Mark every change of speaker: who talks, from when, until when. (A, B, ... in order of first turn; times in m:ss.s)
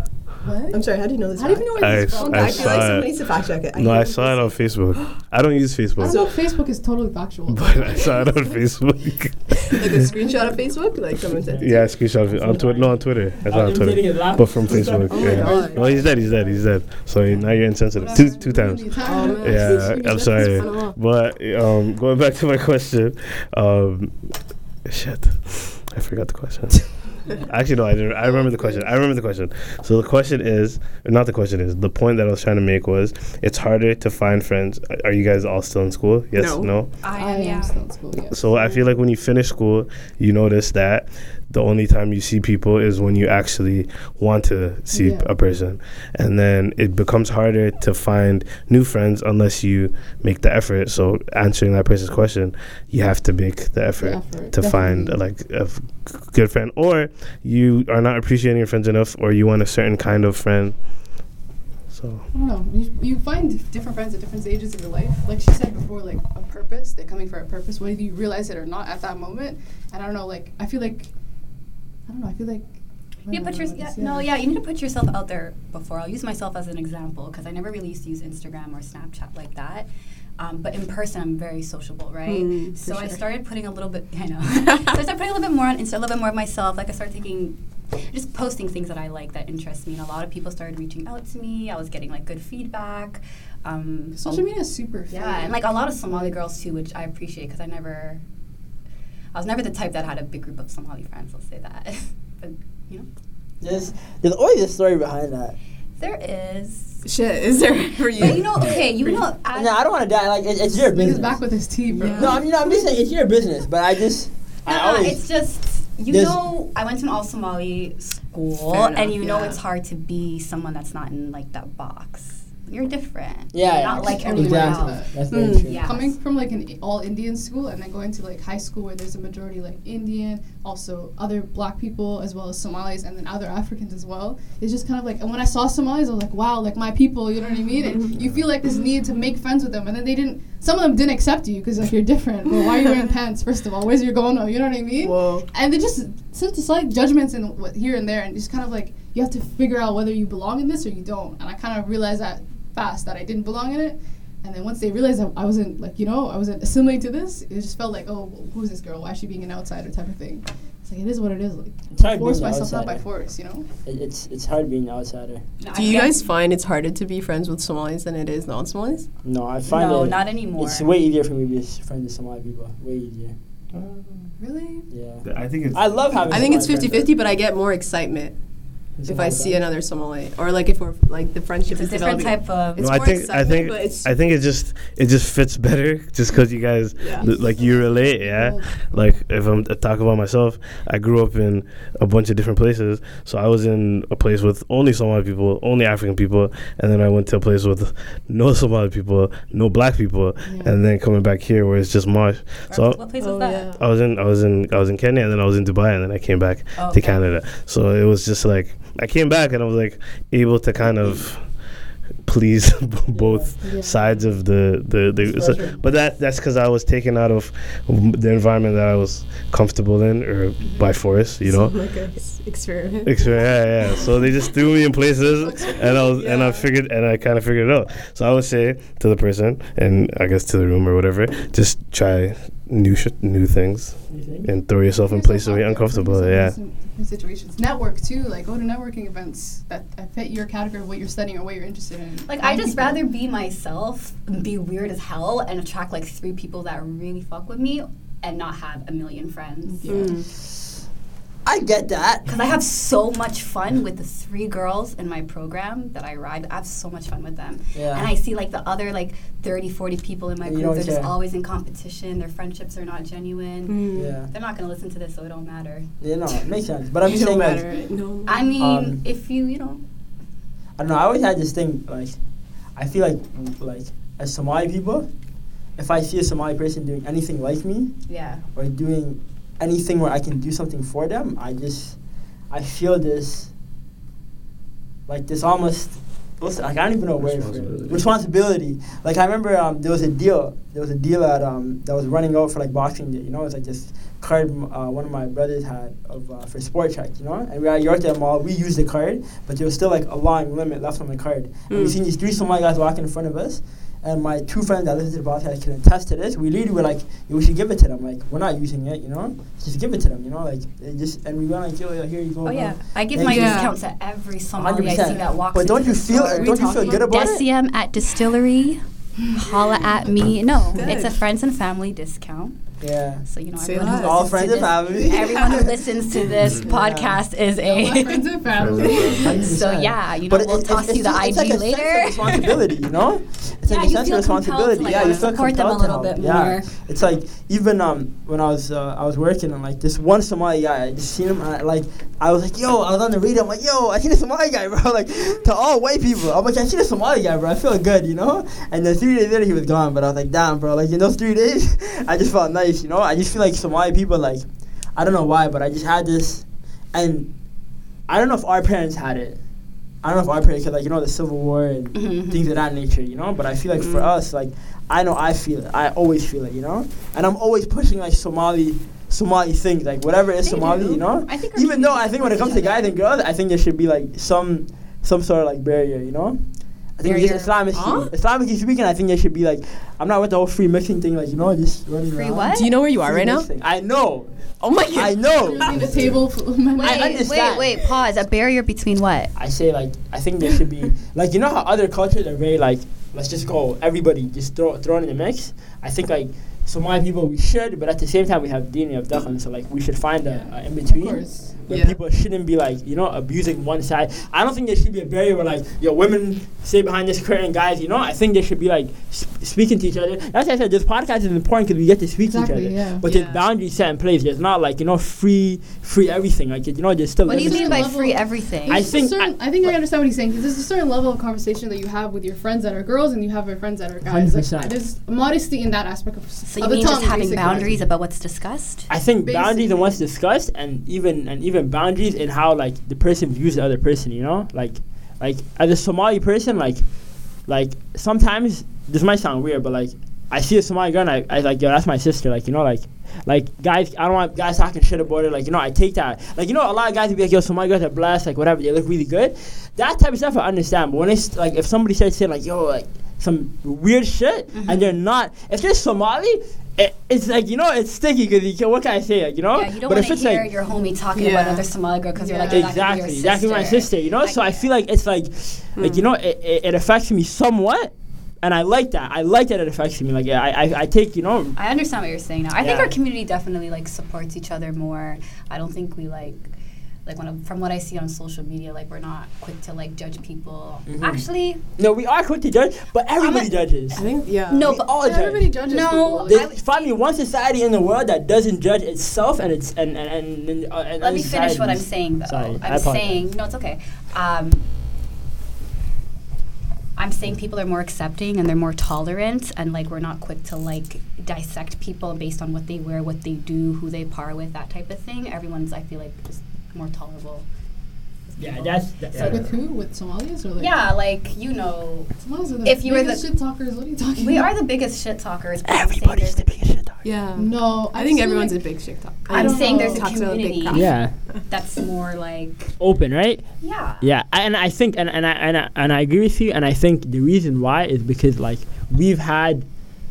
0:00.4-0:00.8 A
0:00.7-0:04.5 B
0:01.3-0:03.0 A
0:01.8-0:03.2 C
0:03.7-0:06.2 C
0:06.0-0:08.6 A
0:06.0-0:06.4 B
0:07.5-0:09.8 C
0:09.7-0:10.3 A
0:09.7-0:11.9 B
0:11.4-0:11.7 D
0:11.6-0:24.3 C
0:12.3-0:15.9 D
0:15.0-0:16.1 B
0:15.4-0:15.8 A
0:18.0-0:20.7 A
0:19.0-0:21.0 B
0:24.8-0:36.9 C
0:36.3-0:36.7 B
0:37.0-0:37.7 E
0:37.1-0:38.7 A
0:38.3-1:00.8 C
0:44.9-0:45.3 A
0:54.0-0:55.2 A
1:01.9-1:02.2 C
1:02.3-1:11.1 A
1:12.1-1:12.7 A
1:13.2-1:14.3 A
1:13.3-1:19.9 E
1:20.4-1:27.6 E
1:22.3-1:23.2 B
1:28.1-1:34.5 E
1:34.1-1:36.3 A
1:35.1-1:38.2 E
1:39.3-1:43.1 E
1:43.6-1:45.6 D
1:46.0-1:47.0 E
1:47.0-1:49.2 B
1:48.1-1:49.8 E
1:49.5-1:51.4 D
1:50.9-1:52.4 A
1:51.9-1:52.4 B
1:52.1-1:55.2 D
1:54.6-2:06.1 E
1:56.1-1:56.4 D
1:58.7-1:59.6 B
2:03.5-2:05.8 D
2:03.7-2:43.7 A
2:05.3-2:05.6 B
2:25.0-2:25.5 B
2:41.9-2:43.0 D
2:43.8-2:45.4 D
2:45.6-2:46.2 E
2:45.7-2:49.1 B
2:49.2-2:53.3 D
2:49.7-2:50.9 E
2:53.7-2:54.3 C
2:54.4-2:54.9 A
2:54.9-2:57.1 D
2:55.2-2:57.0 C
2:56.3-2:58.3 B
2:59.0-2:59.6 D
2:59.1-3:04.1 B
3:01.7-3:03.0 E
3:02.8-3:23.0 C
3:07.0-3:07.3 B
3:07.2-3:08.8 A
3:20.4-3:20.7 A
3:22.7-3:23.8 E
3:23.2-3:23.8 B
3:23.8-3:31.5 C
3:26.8-3:27.2 E
3:32.2-3:41.8 C
3:33.1-3:33.5 D
3:33.6-3:34.0 A
3:35.2-3:35.8 D
3:40.6-3:41.0 E
3:41.4-3:43.3 B
3:43.0-3:56.5 C
3:45.4-3:46.1 A
3:46.1-3:46.7 D
3:54.1-3:54.5 D
3:55.0-4:03.0 A
4:02.3-4:09.9 E
4:09.7-4:10.2 A
4:09.9-4:10.3 B
4:10.4-4:10.6 D
4:11.4-4:12.3 D
4:12.2-4:25.9 E
4:17.7-4:18.1 D
4:20.4-4:21.1 D
4:23.7-4:24.1 B
4:23.9-4:24.3 D
4:26.0-4:27.6 D
4:27.0-4:28.5 B
4:28.2-4:29.8 E
4:28.6-4:29.0 D
4:30.8-4:32.2 D
4:32.7-4:35.1 D
4:35.8-4:43.5 D
4:38.1-4:38.4 E
4:45.1-5:13.7 D
4:47.2-4:48.0 C
5:01.7-5:02.0 B
5:12.4-5:22.6 E
5:13.2-5:13.7 B
5:14.6-5:17.4 D
5:15.0-5:15.3 A
5:16.3-5:17.0 B
5:20.7-5:21.2 B
5:22.8-5:23.2 D
5:23.2-5:32.6 E
5:23.6-5:25.6 B
5:23.8-5:25.8 D
5:26.4-5:26.6 C
5:26.4-5:27.2 D
5:27.6-5:29.5 A
5:28.5-5:29.5 C
5:28.9-5:57.3 D
5:33.6-5:36.7 E
5:34.8-5:35.3 B
5:58.1-5:59.4 D
6:00.0-6:26.0 D
6:01.9-6:02.4 E
6:03.8-6:04.1 B
6:10.4-6:12.9 E
6:17.0-6:17.9 E
6:17.7-6:18.1 B
6:22.1-6:22.8 E
6:22.5-6:23.5 B
6:24.6-6:25.8 B
6:25.3-6:27.2 A
6:26.8-6:29.3 E
6:26.8-6:27.8 D
6:29.4-6:58.0 D
6:40.2-6:41.6 A
6:41.7-6:42.0 B
6:52.2-6:53.0 A
6:53.0-6:53.4 B
6:57.2-7:07.8 A
6:57.2-6:58.9 E
6:58.7-6:59.8 D
7:04.0-7:04.8 D
7:06.5-7:08.9 E
7:08.9-7:40.5 D
7:09.2-7:10.0 A
7:34.5-7:35.0 E
7:39.5-7:44.6 E
7:41.1-7:41.6 B
7:42.2-7:42.7 B
7:42.4-7:51.6 D
7:45.8-7:46.0 B
7:51.6-7:56.5 E
7:52.6-7:52.9 D
7:57.0-8:01.6 E
8:00.9-8:04.0 D
8:03.2-8:04.9 E
8:03.9-8:04.7 B
8:04.5-8:05.6 D
8:04.9-8:06.4 A
8:05.6-8:06.9 E
8:06.3-8:13.2 D
8:11.0-8:14.6 E
8:17.0-8:27.4 E
8:28.3-8:29.5 E
8:28.4-8:29.5 D
8:29.1-8:30.8 A
8:30.6-8:33.3 E
8:32.2-8:34.6 A
8:34.2-8:36.5 E
8:35.6-8:37.0 D
8:37.0-8:41.4 B
8:37.4-8:38.6 A
8:39.3-8:40.1 A
8:39.3-8:42.7 E
8:40.7-8:41.1 D
8:42.8-8:49.6 D
8:43.6-8:44.1 E